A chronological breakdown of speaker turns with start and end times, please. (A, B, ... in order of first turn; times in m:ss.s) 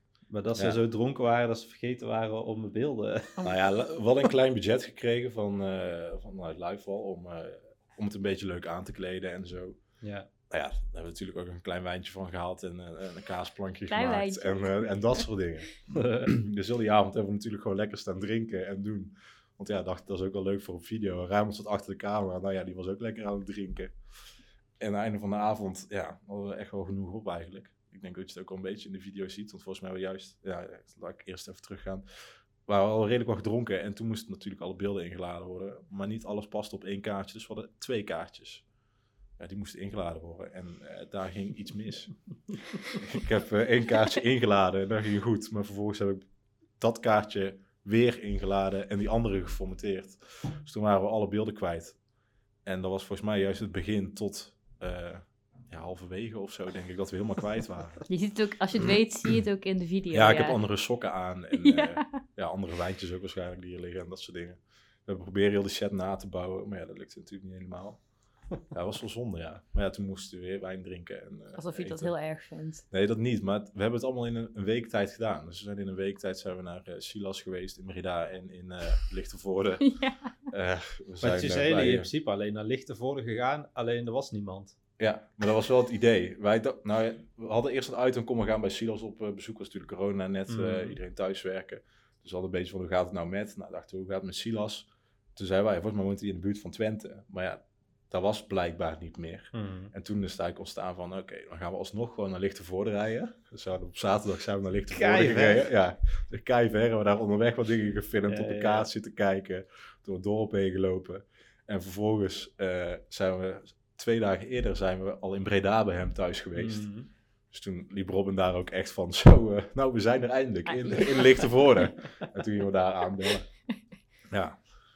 0:00.3-0:03.4 A
0:03.4-0:03.7 B
0:03.4-0:09.8 C
0:10.0-0:10.3 A
0:10.5-0:24.0 C
0:13.9-0:15.3 B
0:15.9-0:16.4 A
0:24.8-0:32.0 C
0:32.7-0:38.6 C
0:39.4-0:46.3 C
0:46.8-0:52.0 C
0:52.6-0:58.1 C
0:58.1-1:00.6 B
1:00.1-1:08.0 C
1:01.6-1:02.2 B
1:08.7-1:12.1 C
1:11.6-1:12.8 B
1:12.9-1:19.9 C
1:19.8-1:20.3 B
1:20.5-1:22.1 C
1:21.2-1:24.8 A
1:25.0-1:56.9 C
1:30.5-1:31.0 A
1:39.5-1:39.9 A
1:44.9-1:45.7 A
1:48.3-1:48.9 A
1:56.6-1:57.1 A
1:57.5-2:03.5 C
2:00.7-2:01.5 B
2:04.3-2:04.6 C